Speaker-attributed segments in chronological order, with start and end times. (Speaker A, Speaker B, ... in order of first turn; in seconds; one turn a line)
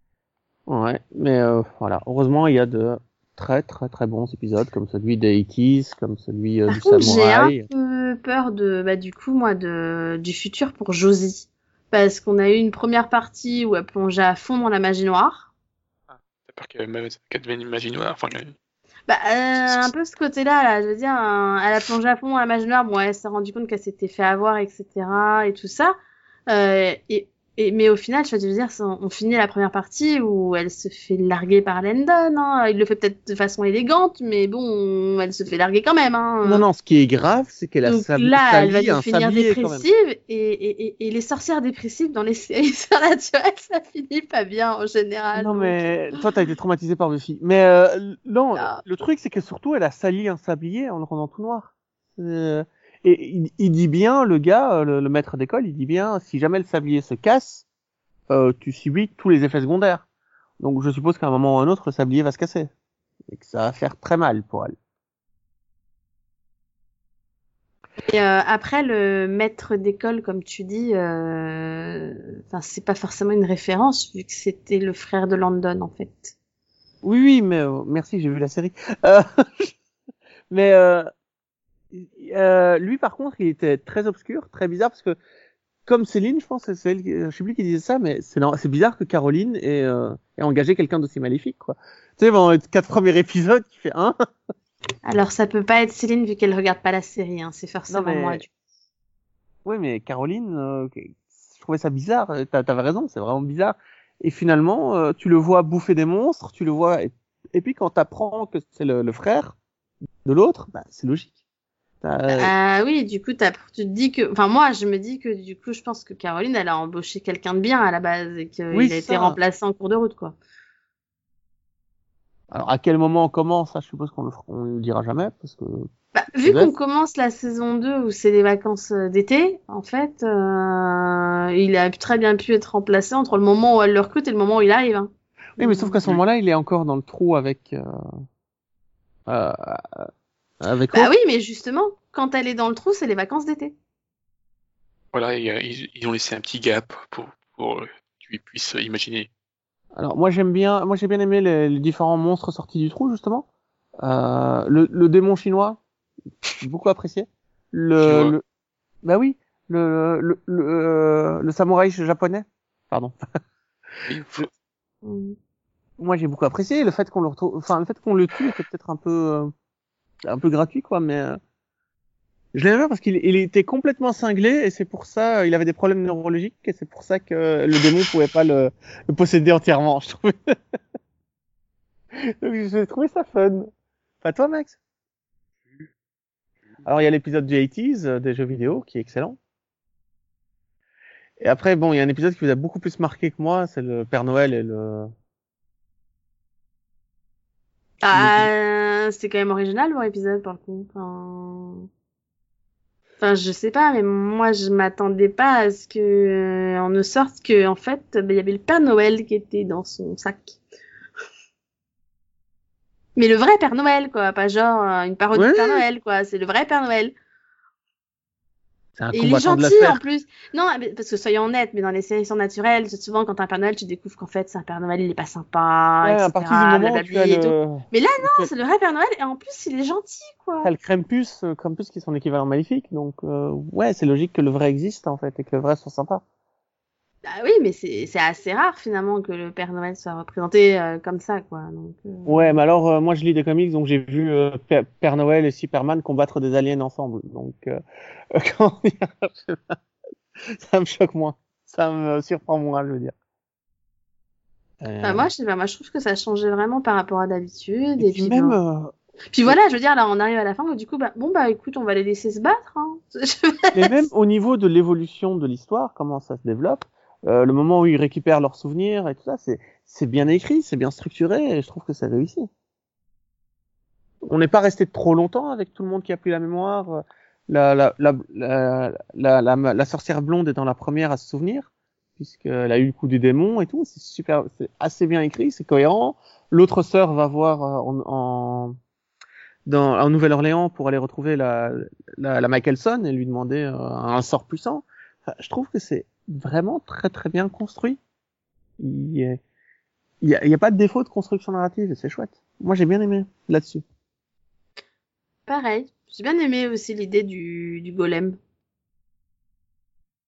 Speaker A: 0.7-7.7
Speaker B: 6.7-15.5
Speaker C: 16.1-18.5
Speaker B: 19.1-25.9
Speaker B: 26.5-36.6
Speaker A: 36.4-39.8
Speaker B: 37.8-45.9
Speaker A: 45.3-57.6
Speaker B: 48.5-48.8
Speaker A: 58.3-60.0
Speaker A: 60.6-62.7
Speaker A: 63.3-64.7
Speaker B: 68.0-76.3
Speaker A: 77.0-79.7
Speaker A: 80.5-81.1
Speaker A: 81.9-85.2
Speaker A: 85.8-94.1
Speaker B: 95.0-98.5
Speaker A: 97.9-98.4
Speaker A: 99.6-109.6
Speaker A: 110.2-111.3
Speaker A: 112.0-112.5
Speaker B: 112.3-120.3
Speaker A: 118.7-119.4
Speaker A: 122.5-125.9
Speaker B: 126.1-136.0
Speaker A: 126.4-126.7
Speaker A: 135.6-137.8
Speaker A: 139.3-140.1
Speaker A: 140.6-141.1
Speaker B: 140.9-143.7
Speaker C: 145.1-149.3
Speaker A: 149.9-153.5
Speaker A: 154.0-155.8
Speaker A: 156.6-158.4
Speaker C: 158.0-158.3
Speaker A: 159.0-163.1
Speaker C: 164.0-164.5
Speaker B: 165.0-165.3
Speaker A: 166.0-169.5
Speaker A: 170.2-171.4
Speaker A: 172.5-180.3
Speaker A: 182.4-183.7
Speaker A: 184.2-184.8
Speaker A: 186.8-189.4
Speaker A: 191.4-195.1
Speaker B: 198.0-201.9
Speaker A: 198.1-198.5
Speaker B: 203.2-210.6
Speaker B: 213.2-217.1
Speaker A: 215.3-215.8
Speaker A: 218.9-220.0
Speaker B: 219.1-230.7
Speaker A: 226.0-228.5
Speaker A: 230.6-236.2
Speaker B: 237.3-242.6
Speaker A: 242.2-247.8
Speaker A: 248.3-249.7
Speaker A: 250.5-253.1
Speaker A: 254.8-255.3
Speaker B: 255.0-258.6
Speaker A: 258.0-259.6
Speaker B: 259.3-264.1
Speaker A: 263.7-272.5
Speaker A: 274.3-288.8
Speaker A: 289.6-298.0
Speaker A: 298.8-299.4
Speaker A: 300.2-303.8
Speaker B: 305.5-308.4